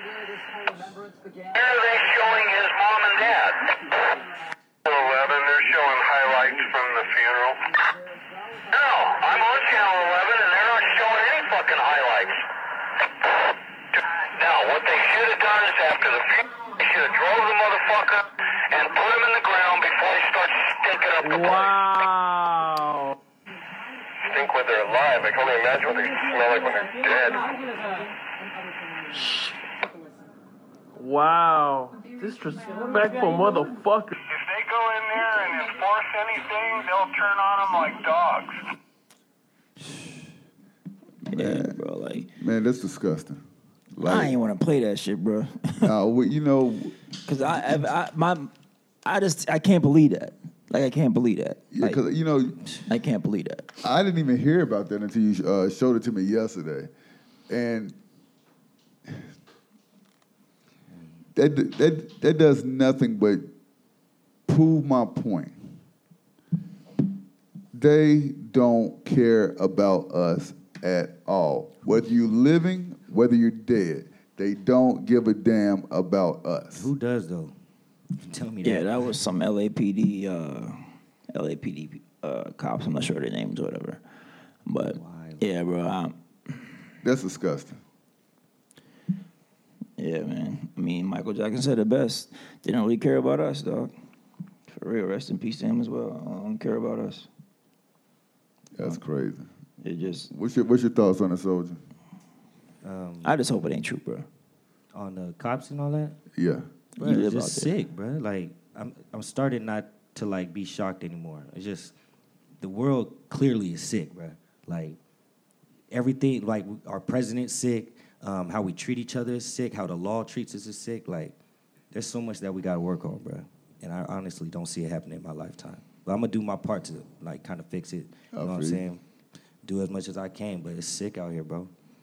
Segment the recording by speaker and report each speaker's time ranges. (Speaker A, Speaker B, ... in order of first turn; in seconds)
Speaker A: 1.5-4.2, 4.8-7.6, 8.7-12.4, 13.9-21.8, 24.2-27.5, 34.3-38.6
Speaker B: 21.2-23.2, 29.1-29.6, 30.9-34.1
Speaker C: 41.2-41.8, 42.3-43.4, 43.9-44.4, 45.8-47.0, 51.7-52.6, 53.8-56.9, 57.5-58.0, 61.3-63.5, 64.5-65.7, 67.7-76.9, 87.0-87.8, 98.7-99.5, 100.3-101.8, 106.3-106.6, 128.3-128.8
Speaker D: 41.3-42.3, 44.0-45.9, 47.2-48.5, 49.0-52.0, 52.9-53.7, 78.6-80.8, 81.3-84.0, 84.7-86.2, 90.0-93.9, 94.7-97.3, 99.8-100.3, 103.2-104.2, 107.0-107.7
Speaker E: 60.9-61.2, 76.7-77.5, 78.2-79.1, 84.9-85.4, 102.8-103.3, 104.9-106.2, 107.0-111.9, 112.6-115.0, 115.9-121.3, 121.9-129.0, 129.6-131.7